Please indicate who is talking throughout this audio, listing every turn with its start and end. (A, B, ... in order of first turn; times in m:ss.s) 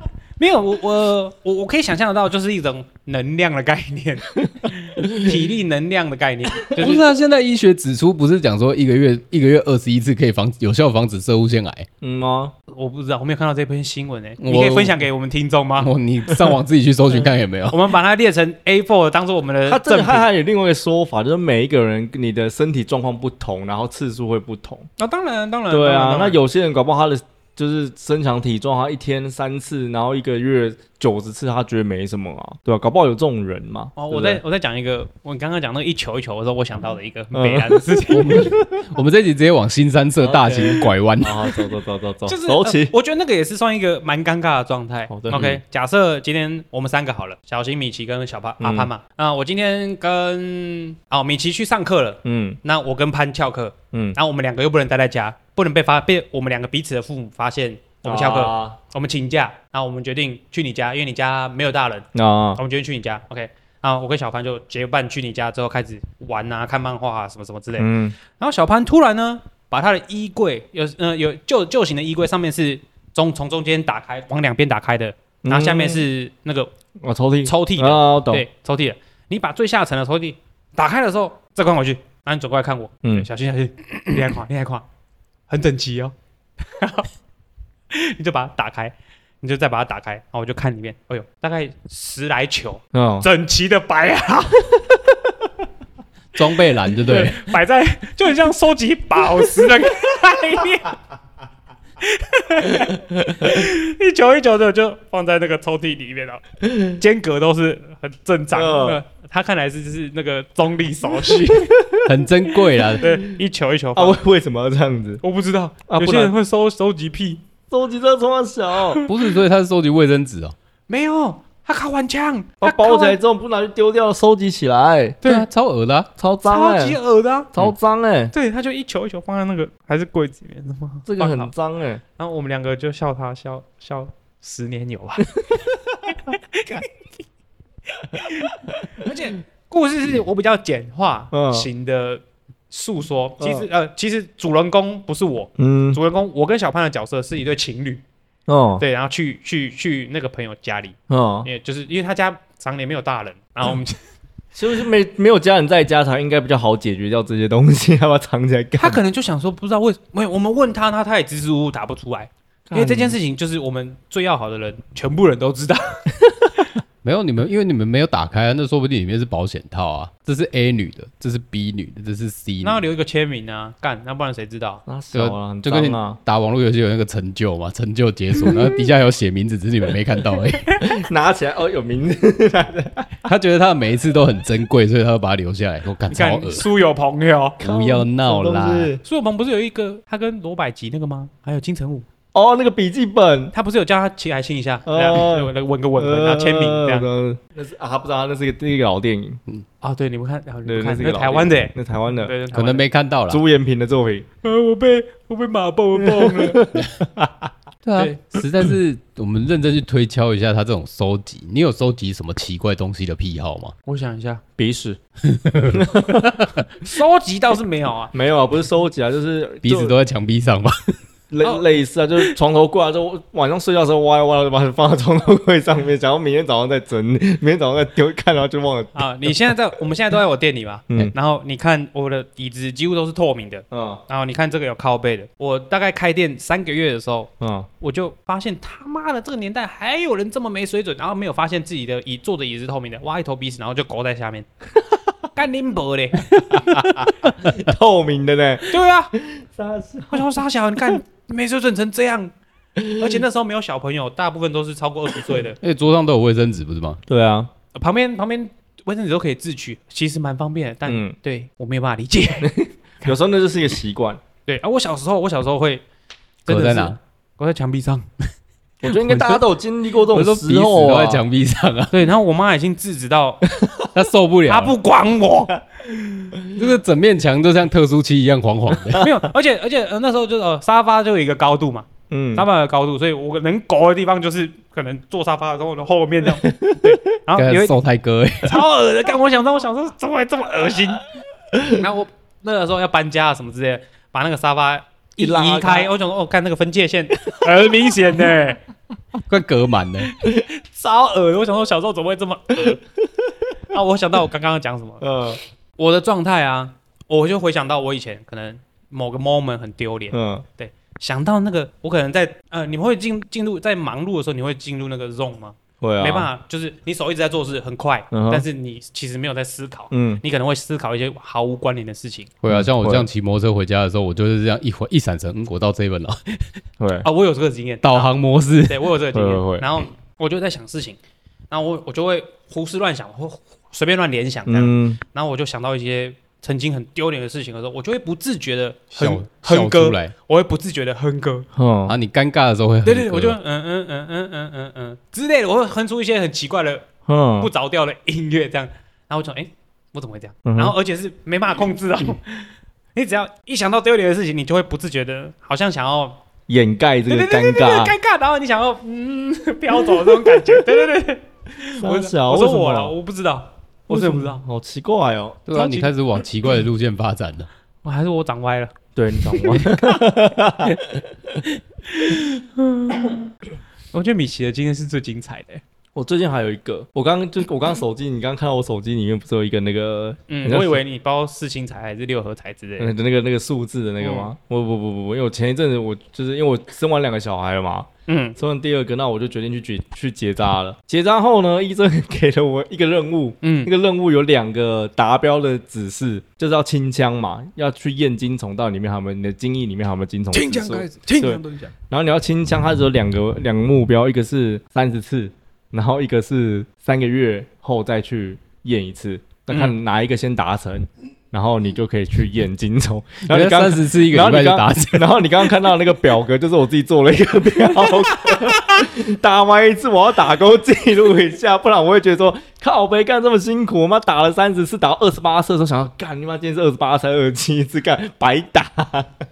0:00.4-0:07.0 A
0:06.7-0:11.9 B
0:12.0-0:12.5 C
0:12.7-0:15.9 A
0:14.4-0:15.0 B
0:15.8-0:17.8 B
0:17.7-0:20.3 A
0:19.7-0:24.9 C
0:25.0-0:26.4 A
0:25.7-0:34.4 C
0:34.0-0:38.6 A
0:37.3-0:38.6 C
0:38.1-0:41.6 B
0:40.2-0:42.9 C
0:42.3-1:16.7 A
0:45.1-0:45.6 C
0:45.3-0:45.6 B
0:48.6-0:48.9 C
0:52.2-0:52.6 C
0:53.9-0:54.2 C
0:58.0-0:58.8 C
1:02.2-1:02.6 C
1:07.8-1:08.2 C
1:15.4-1:16.0 C
1:17.0-1:18.5 C
1:17.4-1:24.9 A
1:25.5-1:26.1 A
1:26.7-1:27.1 A
1:27.9-1:35.2 A
1:32.9-1:33.3 C
1:36.4-1:37.5 B
1:37.0-1:41.0 A
1:42.0-1:51.8 A
1:46.7-1:46.9 C
1:48.5-1:49.0 C
1:51.5-1:52.0 C
1:52.0-1:53.1 B
1:52.8-1:54.2 A
1:54.0-1:55.2 C
1:55.2-1:57.4 A
1:55.9-1:56.3 C
1:57.7-1:59.0 C
1:58.9-1:59.2 A
1:59.1-2:00.6 B
2:00.9-2:03.2 A
2:02.6-2:05.2 C
2:05.2-2:06.1 B
2:06.2-2:07.0 C
2:06.4-2:07.5 A
2:07.5-2:08.3 C
2:08.3-2:11.5 A
2:11.0-2:12.0 C
2:12.2-2:15.4 A
2:16.2-2:16.9 A
2:18.0-2:28.0 A
2:21.3-2:21.7 C
2:23.4-2:23.7 C
2:25.6-2:26.0 C
2:28.5-2:28.8 C
2:28.8-2:34.0 A
2:31.1-2:31.5 C
2:34.6-2:39.0 C
2:38.8-2:46.0 A
2:42.7-2:43.2 C
2:47.0-2:52.8 B
2:52.6-2:54.8 A
2:54.9-2:56.2 C
2:55.1-3:00.9 B
3:00.8-3:03.3 C
3:03.2-3:06.6 B
3:06.1-3:07.6 A
3:07.6-3:09.0 C
3:07.6-3:08.9 B
3:09.0-3:12.1 A
3:12.3-3:13.5 C
3:13.5-3:17.1 A
3:14.9-3:19.4 C
3:19.8-3:22.9 A
3:20.6-3:22.3 C
3:22.5-3:23.4 B
3:23.3-3:24.3 C
3:24.4-3:26.7 A
3:26.0-3:27.5 C
3:27.8-3:33.8 B
3:28.0-3:28.3 A
3:33.9-3:34.4 A
3:34.6-3:35.0 C
3:35.2-3:35.8 B
3:35.7-3:36.3 C
3:36.8-3:38.1 A
3:38.1-3:40.0 C
3:39.6-3:41.0 B
3:41.3-3:49.3 C
3:49.0-4:04.5 A
3:53.7-3:54.0 C
3:57.4-3:57.7 C
4:05.3-4:06.6 A
4:06.6-4:10.3 C
4:08.7-4:09.1 A
4:10.1-4:12.3 A
4:12.8-4:13.1 C
4:12.9-4:15.6 A
4:15.6-4:17.0 B
4:17.1-4:17.5 C
4:17.7-4:23.2 A
4:20.9-4:21.2 C
4:22.4-4:24.2 C
4:24.5-4:25.8 A
4:26.5-4:27.0 B
4:26.5-4:28.1 A
4:28.8-4:31.2 C
4:28.9-4:29.4 B
4:30.1-4:32.1 B
4:31.9-4:33.5 A
4:33.9-4:34.8 B
4:34.5-4:36.4 A
4:36.5-4:39.1 B
4:39.0-4:47.8 A
4:42.1-4:42.5 C
4:46.3-4:47.0 C
4:47.4-4:48.6 B
4:48.4-4:51.0 A
4:51.6-4:58.6 A
4:55.2-4:55.9 C
4:57.3-4:57.7 C
4:59.3-5:00.1 B
5:00.1-5:02.8 A
5:03.7-5:05.0 A
5:05.0-5:05.4 C
5:05.8-5:22.3 A
5:10.1-5:10.4 C
5:15.8-5:16.3 C
5:18.1-5:18.5 C
5:19.9-5:20.2 C
5:22.4-5:26.5 B
5:22.5-5:23.1 C
5:26.8-5:27.1 C
5:27.0-5:28.1 A
5:27.8-5:28.9 B
5:28.7-5:31.0 A
5:29.1-5:29.7 C
5:31.5-5:41.5 A
5:34.5-5:35.0 C
5:39.0-5:40.1 B
5:41.5-5:42.0 C
5:41.9-5:43.4 B
5:42.8-5:56.2 A
5:47.1-5:47.5 C
5:50.4-5:50.8 C
5:56.5-5:58.0 C
5:57.1-6:04.4 A
6:00.0-6:00.5 C
6:01.6-6:02.9 C
6:03.9-6:05.4 C
6:05.5-6:07.5 B
6:05.5-6:05.9 A
6:07.8-6:08.8 A
6:09.0-6:11.0 C
6:09.3-6:10.1 A
6:11.8-6:13.3 A
6:13.9-6:15.6 A
6:16.0-6:20.8 C
6:20.3-6:22.9 A
6:22.8-7:09.2 C
6:24.0-6:24.3 A
6:28.1-6:28.4 A
6:33.4-6:33.7 A
6:40.3-6:41.7 A
6:53.3-6:55.2 B